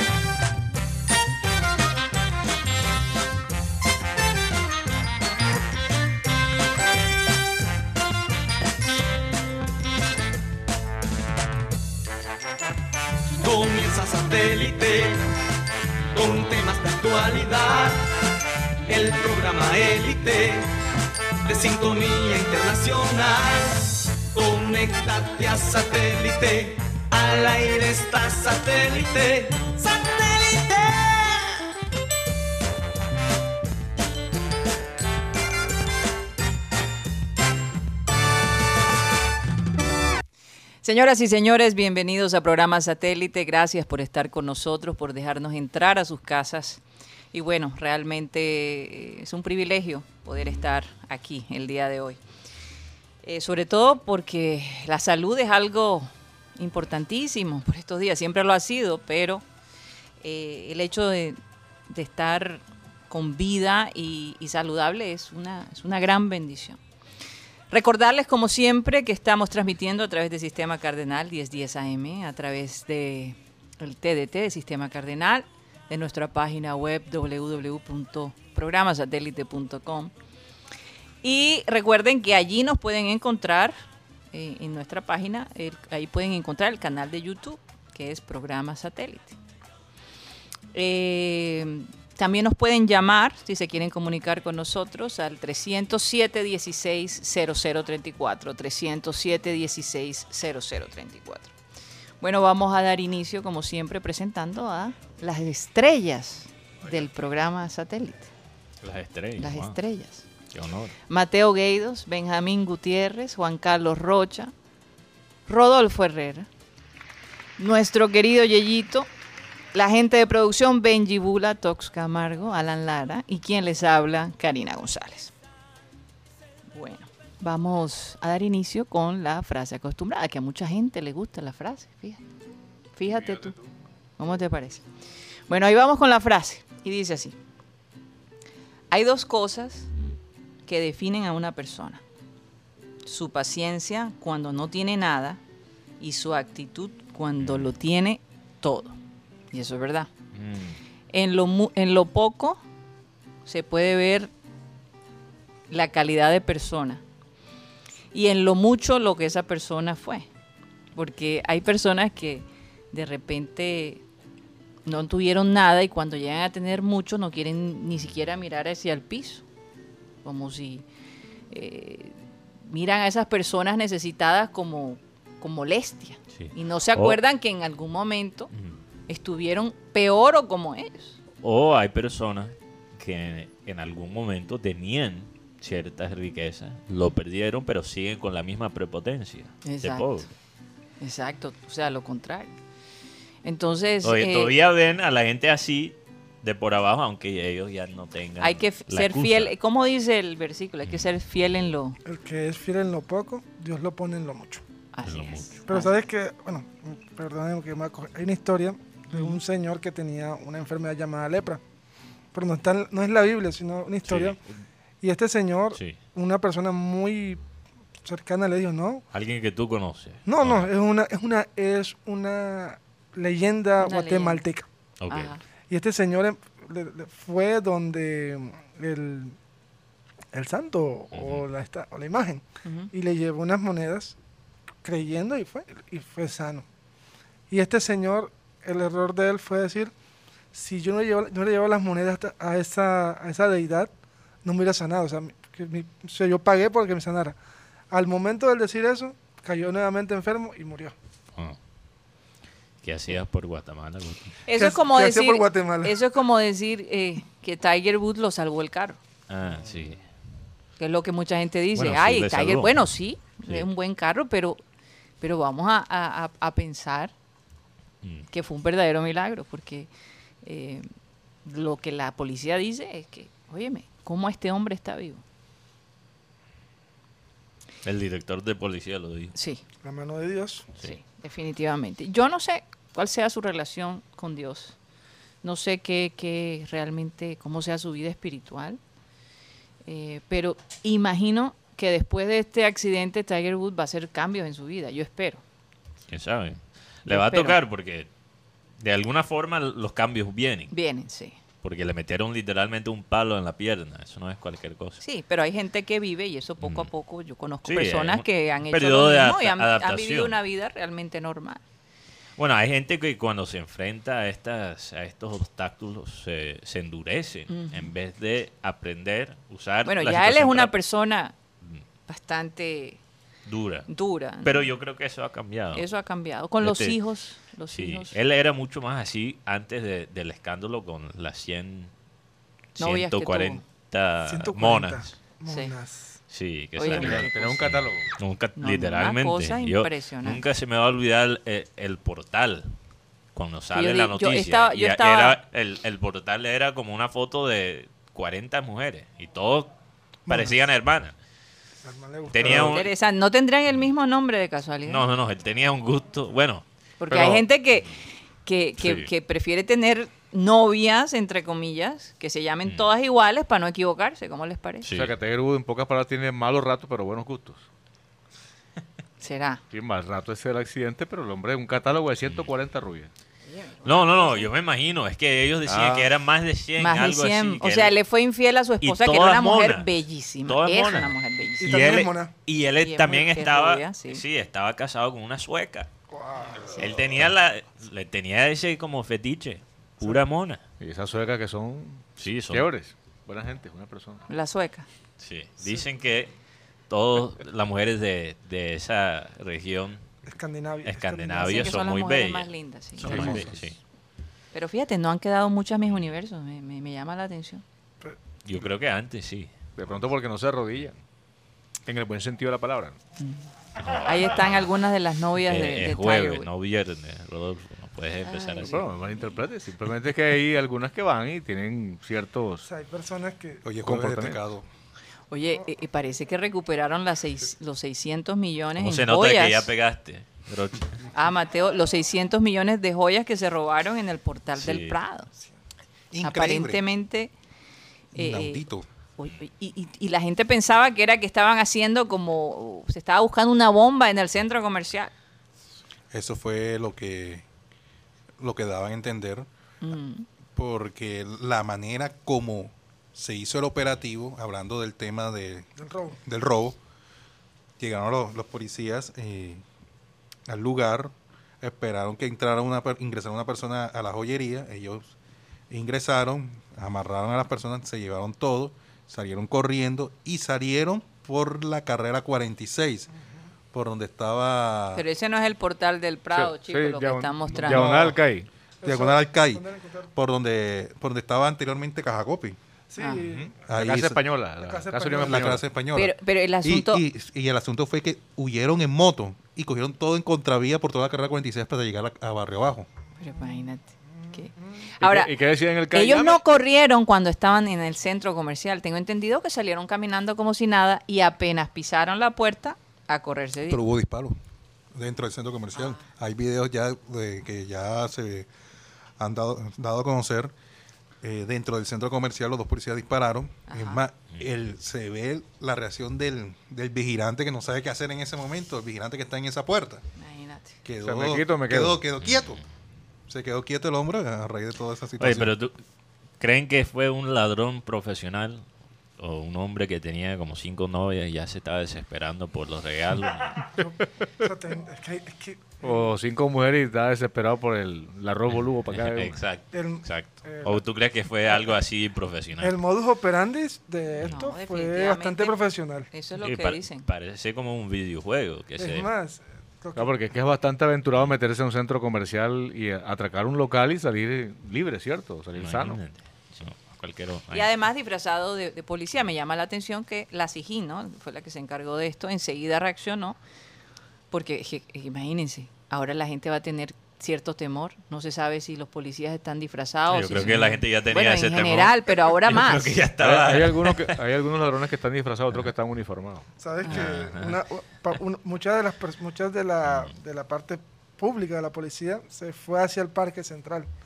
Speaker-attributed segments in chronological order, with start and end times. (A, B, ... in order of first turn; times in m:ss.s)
0:13.4-0:15.2 A
0:16.1-0:18.1 A
0:18.9-0:20.7 A
0:21.4-0:31.6 A
0:40.8-0:46.8 B
0:47.3-0:52.2 B
0:53.2-0:59.4 B
1:00.2-1:06.8 B
1:07.7-1:20.1 B
1:21.2-1:23.8 B
1:24.3-1:29.4 B
1:30.7-1:41.5 B
1:42.2-1:48.3 B
1:48.8-1:49.8 C
1:49.4-1:50.3 B
1:50.5-1:51.0 C
1:51.1-1:54.5 B
1:55.5-1:56.5 B
1:57.6-1:59.1 B
1:59.7-2:05.3 B
2:06.7-2:12.2 B
2:13.0-2:13.6 B
2:14.2-2:14.8 B
2:15.5-2:17.4 B
2:18.9-2:19.9 B
2:20.7-2:22.0 B
2:23.1-2:25.4 B
2:26.0-2:29.0 B
2:27.4-2:27.7 C
2:29.5-2:30.1 B
2:30.3-2:30.8 C
2:31.1-2:32.6 B
2:33.4-2:34.3 B
2:35.7-2:37.0 B
2:38.1-2:40.3 B
2:41.0-2:44.0 B
2:44.8-2:49.4 B
2:50.2-2:50.9 B
2:51.5-2:58.5 B
2:56.4-2:57.2 C
2:59.1-3:01.2 B
3:01.4-3:10.3 C
3:09.6-3:10.2 B
3:11.0-3:12.6 B
3:13.4-3:14.5 B
3:14.0-3:19.5 C
3:18.4-3:22.0 B
3:22.0-3:24.6 D
3:24.9-3:25.9 B
3:25.0-3:25.5 C
3:25.7-3:31.6 D
3:29.1-3:29.4 B
3:32.3-3:34.4 D
3:34.0-3:34.5 C
3:35.0-3:37.4 D
3:38.0-3:39.0 D
3:39.1-3:40.7 C
3:40.3-3:44.7 D
3:43.8-3:44.4 B
3:45.0-3:45.3 C
3:45.1-3:45.4 B
3:45.7-3:49.4 D
3:50.3-3:54.2 D
3:51.1-3:51.5 C
3:52.6-3:52.9 B
3:54.8-3:56.7 D
3:57.5-3:59.9 D
4:00.5-4:03.9 D
4:04.4-4:07.4 D
4:07.9-4:11.0 D
4:12.8-4:14.4 C
4:14.5-4:19.0 B
4:14.6-4:16.0 D
4:19.3-4:20.0 C
4:20.8-4:24.6 B
4:21.8-4:22.8 C
4:25.2-4:27.1 B
4:28.0-4:28.3 C
4:28.3-4:29.9 B
4:30.4-4:30.9 B
4:31.4-4:35.2 B
4:37.8-4:39.3 C
4:39.4-4:39.6 B
4:39.8-4:40.7 D
4:40.8-4:44.8 B
4:45.4-4:48.8 B
4:49.8-4:55.4 B
4:56.1-4:58.1 C
4:57.1-4:57.6 B
4:58.8-5:00.7 C
5:00.7-5:01.4 B
5:01.6-5:05.0 C
5:05.0-5:11.6 B
5:06.6-5:06.9 C
5:07.6-5:10.4 C
5:12.4-5:20.7 C
5:17.5-5:17.9 B
5:19.9-5:21.4 B
5:22.1-5:23.0 B
5:23.5-5:23.9 C
5:23.9-5:24.7 B
5:24.4-5:25.8 C
5:25.7-5:28.2 B
5:26.6-5:27.0 C
5:27.7-5:31.9 C
5:32.8-5:35.1 C
5:32.8-5:33.6 B
5:34.2-5:36.2 D
5:35.5-5:35.7 B
5:36.3-5:42.7 C
5:36.8-5:37.5 B
5:36.8-5:38.2 E
5:38.6-5:40.4 B
5:43.4-5:49.7 C
5:43.7-5:45.4 B
5:50.3-5:50.6 D
5:50.3-5:51.1 C
5:51.8-5:52.8 D
5:52.3-5:52.9 C
5:52.4-5:55.0 B
5:54.9-5:56.6 C
5:57.0-5:57.9 B
5:57.1-5:57.4 E
5:58.4-6:04.9 B
5:58.8-5:59.1 C
6:04.8-6:05.1 C
6:04.9-6:07.6 E
6:09.2-6:09.6 B
6:09.7-6:13.1 E
6:13.5-6:14.5 B
6:13.8-6:18.0 C
6:15.7-6:16.1 E
6:16.8-6:22.0 B
6:18.8-6:25.9 C
6:21.6-6:22.3 D
6:22.8-6:24.2 B
6:26.1-6:26.8 D
6:26.7-6:30.6 C
6:30.8-6:34.2 E
6:32.2-6:32.6 C
6:34.3-6:34.9 B
6:35.2-6:36.3 C
6:36.9-6:40.0 C
6:40.3-6:41.6 D
6:40.8-6:43.8 C
6:41.3-6:43.4 B
6:43.0-6:43.5 F
6:43.0-6:43.6 E
6:44.5-6:47.6 B
6:48.0-6:48.6 D
6:48.4-6:49.5 C
6:49.8-6:51.0 E
6:51.9-6:53.0 E
6:53.2-6:56.5 B
6:53.8-6:54.7 C
6:55.4-6:58.8 C
6:58.2-6:59.4 B
6:58.6-7:02.6 E
7:02.7-7:03.7 D
7:03.6-7:04.7 F
7:03.8-7:04.4 E
7:05.3-7:09.7 B
7:08.8-7:11.0 C
7:11.1-7:15.3 B
7:14.6-7:15.0 C
7:16.1-7:16.8 F
7:16.2-7:17.3 B
7:18.1-7:18.6 B
7:18.1-7:18.9 F
7:19.2-7:25.1 B
7:26.1-7:27.4 F
7:28.4-7:29.5 F
7:29.8-7:30.3 B
7:30.6-7:35.7 F
7:35.8-7:36.2 D
7:36.2-7:36.8 F
7:37.8-7:39.6 F
7:40.5-7:45.1 F
7:45.7-7:53.1 F
7:53.7-7:55.0 F
7:55.0-7:58.0 B
7:56.3-7:58.5 E
7:57.7-7:58.2 F
7:58.8-8:00.1 D
7:58.8-8:02.6 F
8:02.9-8:03.6 D
8:03.0-8:03.3 B
8:03.3-8:05.6 E
8:03.7-8:04.2 F
8:04.6-8:05.6 D
8:05.2-8:12.9 F
8:05.9-8:07.0 B
8:13.2-8:15.3 B
8:15.0-8:16.4 E
8:15.9-8:23.9 B
8:23.7-8:24.4 F
8:24.9-8:28.5 F
8:25.8-8:26.0 B
8:29.2-8:30.5 F
8:31.2-8:40.0 F
8:33.7-8:34.0 B
8:40.2-8:40.8 B
8:40.8-8:42.6 F
8:41.0-8:42.0 E
8:42.2-8:42.6 C
8:43.3-8:45.5 F
8:45.2-8:45.8 C
8:46.4-8:48.6 C
8:49.2-8:53.7 C
8:53.7-8:56.0 D
8:55.8-8:59.4 E
8:58.5-9:02.8 C
8:59.7-9:00.8 D
9:02.6-9:06.1 D
9:04.3-9:05.6 B
9:06.1-9:07.1 B
9:06.4-9:09.1 C
9:08.8-9:10.2 D
9:10.0-9:16.0 E
9:15.6-9:17.7 C
9:17.5-9:23.4 B
9:24.3-9:33.0 B
9:30.1-9:34.2 C
9:33.2-9:36.5 E
9:36.6-9:43.9 D
9:36.9-9:37.6 C
9:39.8-9:40.1 C